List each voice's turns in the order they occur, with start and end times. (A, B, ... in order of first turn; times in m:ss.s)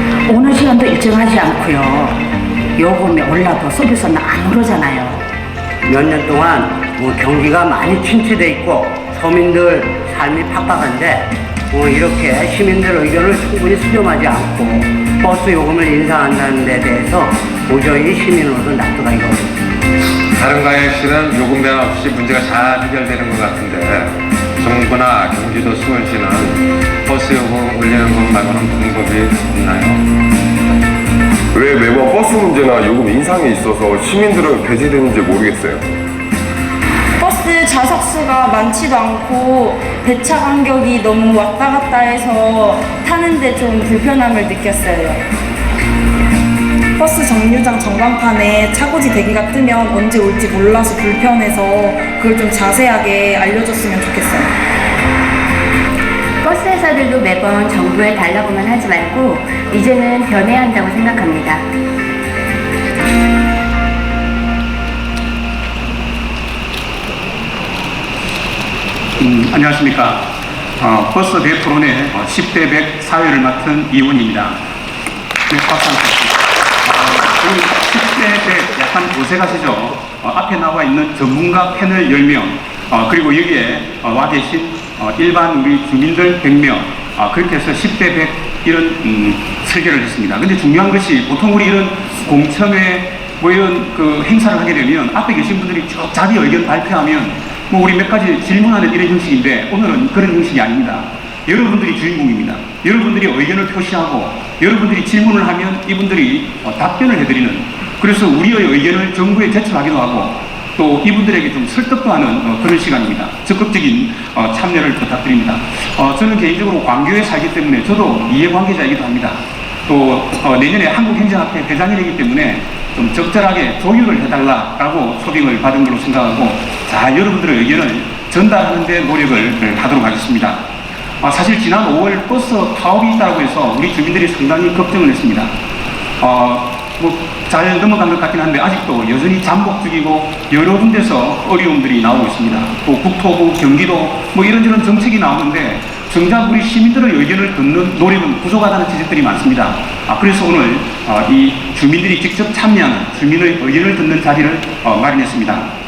0:00.3-0:02.0 A
0:01.6-0:02.1 B
0:02.8-0:04.2 B
0:02.9-0:05.2 A
0:05.8-0:19.6 C
0:20.3-0:30.0 D
0:31.5-0:35.8 E
0:37.2-0:45.2 F
0:47.0-0:54.5 F
0:56.4-1:01.6 B
1:09.2-1:10.2 G
1:10.8-1:14.6 G
1:15.5-2:10.6 G
2:11.2-2:15.5 G
2:16.2-2:35.7 G